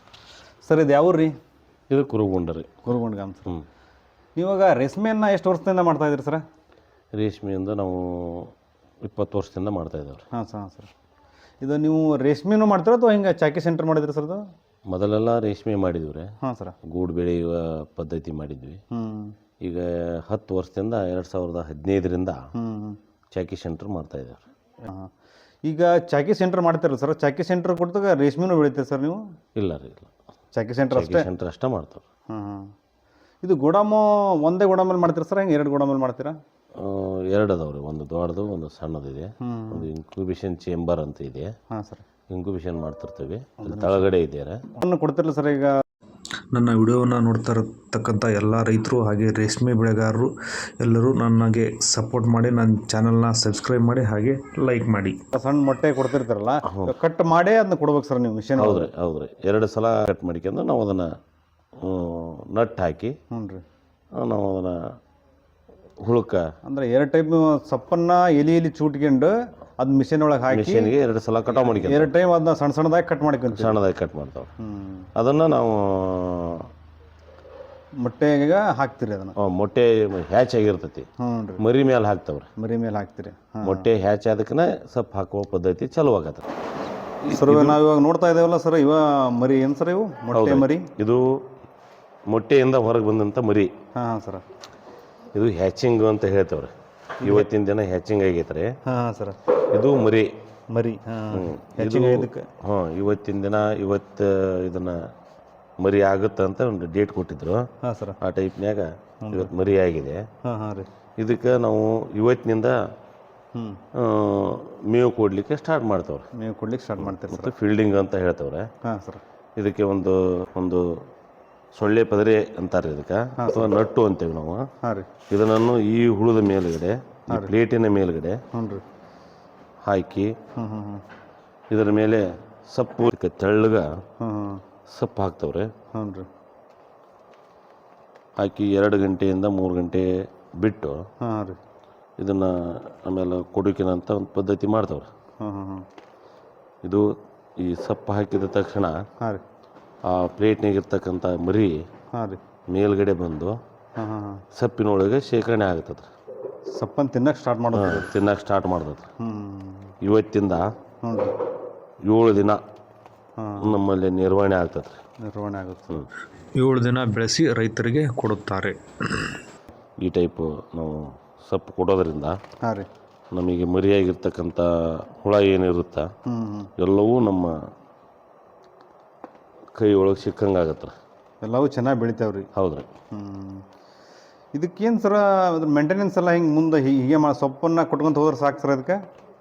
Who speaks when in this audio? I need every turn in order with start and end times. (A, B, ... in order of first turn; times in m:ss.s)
0:00.6-0:01.3 A
0:01.9-0:02.8 B
0:02.8-0:03.5 A
0:04.4-0:06.4 A
0:07.1-0:08.5 B
0:09.0-0:10.2 B
0:10.3-0:10.9 A
0:11.6-0:14.5 A
0:14.9-0:16.3 B
0:16.4-0:16.8 A
0:16.8-0:18.8 B
0:18.9-0:19.4 A
0:19.6-0:22.4 B
0:22.6-0:23.0 A
0:23.3-0:24.4 B
0:24.8-0:25.1 A
0:25.7-0:29.2 A
0:29.6-0:30.1 B
0:30.6-0:31.3 A
0:30.9-0:32.0 B
0:32.3-0:32.7 A
0:33.4-0:36.4 A
0:36.8-0:41.5 B
0:39.4-0:39.9 A
0:41.7-0:42.0 A
0:42.3-0:44.6 B
0:43.6-0:44.1 A
0:44.7-0:45.8 A
0:46.5-0:55.2 C
0:55.3-0:58.9 A
0:56.6-0:56.9 B
0:58.6-1:01.1 B
1:01.8-1:03.2 B
1:03.3-1:03.6 A
1:04.2-1:04.8 B
1:06.0-1:06.5 B
1:06.6-1:10.9 A
1:10.5-1:12.1 B
1:11.5-1:13.8 A
1:13.5-1:14.5 B
1:14.6-1:15.1 A
1:15.2-1:16.7 B
1:18.0-1:19.4 A
1:19.4-1:21.1 B
1:21.2-1:21.6 A
1:21.6-1:22.5 B
1:22.6-1:23.9 A
1:23.6-1:26.4 B
1:27.2-1:27.8 B
1:27.3-1:30.9 A
1:30.3-1:31.5 B
1:32.3-1:33.7 B
1:34.0-1:34.4 A
1:35.4-1:38.8 B
1:37.2-1:37.5 A
1:38.9-1:39.4 A
1:39.7-1:40.3 B
1:40.7-1:42.5 A
1:41.3-1:45.1 B
1:45.8-1:47.7 B
1:47.8-1:48.2 A
1:48.2-1:50.3 B
1:49.2-1:49.5 A
1:50.4-1:50.9 A
1:51.2-1:52.8 B
1:53.6-1:53.8 A
1:53.9-1:56.3 B
1:56.4-1:57.5 A
1:57.0-1:58.7 B
1:58.8-1:59.2 A
1:59.6-2:00.9 B
2:01.7-2:04.7 B
2:03.4-2:03.6 A
2:04.8-2:05.1 A
2:05.3-2:08.4 B
2:08.5-2:08.8 A
2:09.8-2:10.4 B
2:10.5-2:11.0 A
2:11.7-2:14.0 B
2:14.2-2:14.6 A
2:14.9-2:15.7 B
2:15.9-2:16.3 A
2:18.4-2:21.0 B
2:21.2-2:21.6 A
2:22.2-2:25.1 B
2:25.4-2:25.9 A
2:26.8-2:29.0 B
2:30.0-2:31.9 B
2:32.1-2:32.4 A
2:32.7-2:33.6 B
2:34.0-2:34.4 A
2:34.5-2:36.1 B
2:36.7-2:38.1 A
2:37.7-2:39.1 B
2:39.2-2:39.9 A
2:40.0-2:40.7 B
2:41.0-2:41.3 A
2:42.0-2:42.6 B
2:43.4-2:43.8 A
2:43.6-2:45.0 B
2:45.2-2:46.0 A
2:46.6-2:49.4 C
2:50.0-2:52.4 B
2:52.6-2:52.9 A
2:53.3-2:56.1 B
2:56.3-2:56.7 A
2:56.8-2:57.7 B
2:59.8-3:01.0 B
3:01.4-3:02.5 A
3:02.6-3:02.9 B
3:03.1-3:03.6 A
3:04.6-3:09.0 A